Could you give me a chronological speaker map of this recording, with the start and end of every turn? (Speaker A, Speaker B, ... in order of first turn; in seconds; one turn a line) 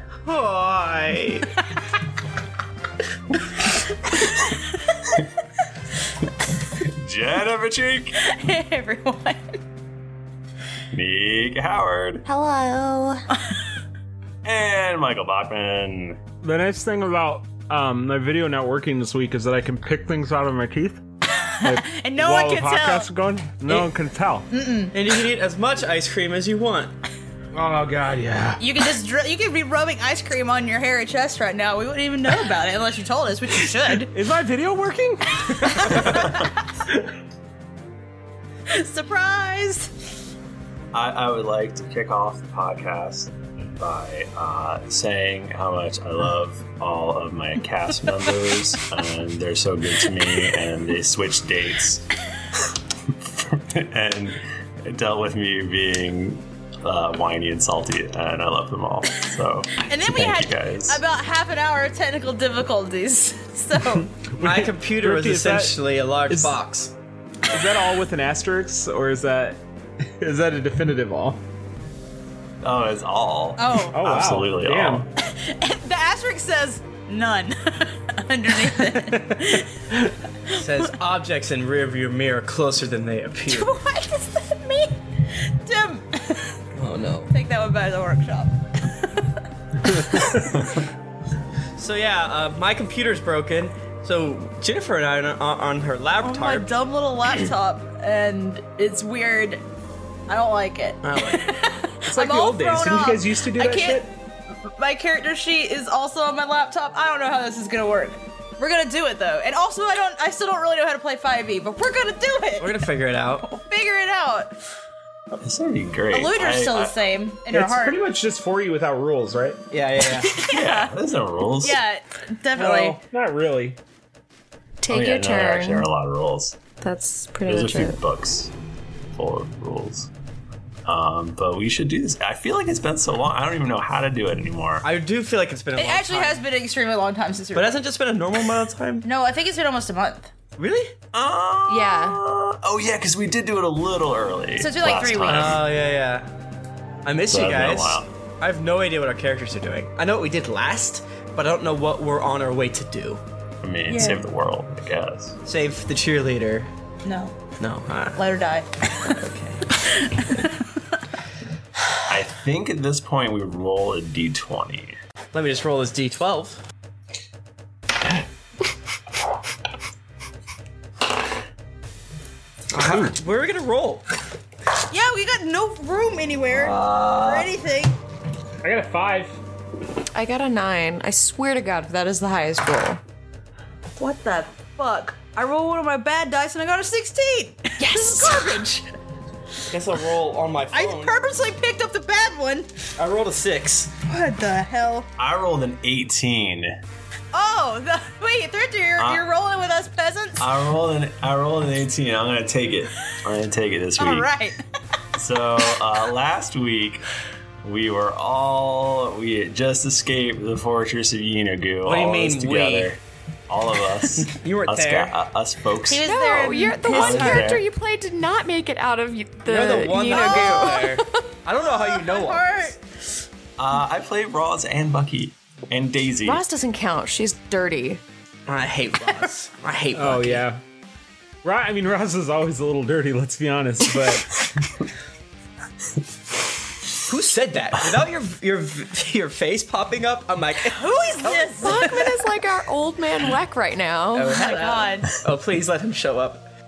Speaker A: 0.2-1.5
Speaker B: 6.8-8.2
Speaker C: 8.2-9.6
Speaker B: 10.9-12.3
Speaker C: 12.3-13.0
Speaker D: 12.8-13.2
Speaker B: 14.4-16.2
Speaker E: 16.4-21.0
Speaker C: 21.6-23.1
Speaker E: 21.6-24.5
Speaker C: 24.5-24.9
Speaker A: 24.9-26.9
Speaker E: 27.5-28.6
Speaker C: 28.6-34.1
Speaker E: 33.9-36.4
Speaker B: 35.9-36.5
Speaker C: 38.7-39.9
Speaker B: 40.9-61.0
Speaker C: 59.9-64.1
Speaker A: 64.3-66.9
Speaker E: 64.3-66.6
Speaker E: 67.5-71.4
Speaker B: 72.6-75.1
Speaker C: 73.6-74.0
Speaker E: 73.9-75.1
Speaker C: 75.2-79.7
Speaker A: 79.0-79.6
Speaker C: 80.5-80.9
Speaker A: 80.5-83.8
Speaker C: 83.5-86.6
Speaker A: 86.8-87.3
Speaker C: 87.3-89.3
Speaker C: 90.0-90.3
Speaker A: 91.8-96.7
Speaker C: 96.2-99.6
Speaker C: 100.3-114.6
Speaker A: 101.0-101.6
Speaker E: 102.0-104.1
Speaker A: 112.6-113.5
Speaker B: 115.4-117.0
Speaker C: 116.1-118.0
Speaker E: 117.5-119.6
Speaker A: 119.7-120.5
Speaker C: 120.2-120.9
Speaker B: 120.5-121.8
Speaker C: 121.6-123.0
Speaker E: 122.5-123.8
Speaker D: 124.8-125.9
Speaker B: 124.9-126.6
Speaker D: 126.8-128.0
Speaker B: 127.5-128.5
Speaker B: 129.1-130.1
Speaker B: 130.8-134.8
Speaker A: 134.8-136.4
Speaker C: 135.8-137.8
Speaker A: 137.5-139.1
Speaker C: 139.0-140.3
Speaker A: 140.6-141.0
Speaker B: 141.1-145.8
Speaker D: 141.7-142.2
Speaker C: 144.6-145.6
Speaker A: 145.3-146.3
Speaker A: 147.1-153.2
Speaker B: 147.3-148.1
Speaker B: 153.6-155.4
Speaker C: 153.9-154.2
Speaker A: 155.4-156.7
Speaker C: 157.1-157.3
Speaker A: 157.6-158.2
Speaker C: 158.2-159.2
Speaker A: 159.0-159.8
Speaker B: 162.1-165.0
Speaker A: 165.3-166.6
Speaker A: 172.7-174.0
Speaker C: 174.9-178.0
Speaker B: 176.5-177.5
Speaker E: 178.6-179.4
Speaker D: 180.1-183.0
Speaker C: 184.0-188.8
Speaker D: 187.8-188.7
Speaker A: 189.7-191.2
Speaker C: 190.7-192.7
Speaker A: 193.0-193.9
Speaker C: 194.1-195.1
Speaker B: 195.2-196.7
Speaker C: 197.3-200.5
Speaker B: 199.0-199.3
Speaker B: 200.4-204.3
Speaker C: 204.0-204.6
Speaker B: 205.2-207.1
Speaker B: 207.6-217.7
Speaker A: 211.8-212.9
Speaker A: 214.2-215.2
Speaker C: 215.9-217.6
Speaker D: 216.1-221.2
Speaker A: 219.5-222.8
Speaker C: 220.0-221.0
Speaker C: 221.6-222.8
Speaker B: 223.6-226.4
Speaker D: 226.2-228.0
Speaker A: 228.5-230.4
Speaker E: 229.9-230.6
Speaker E: 231.4-234.3
Speaker A: 237.1-241.9
Speaker C: 240.7-242.2
Speaker D: 241.6-244.9
Speaker A: 244.1-246.5
Speaker C: 244.3-245.2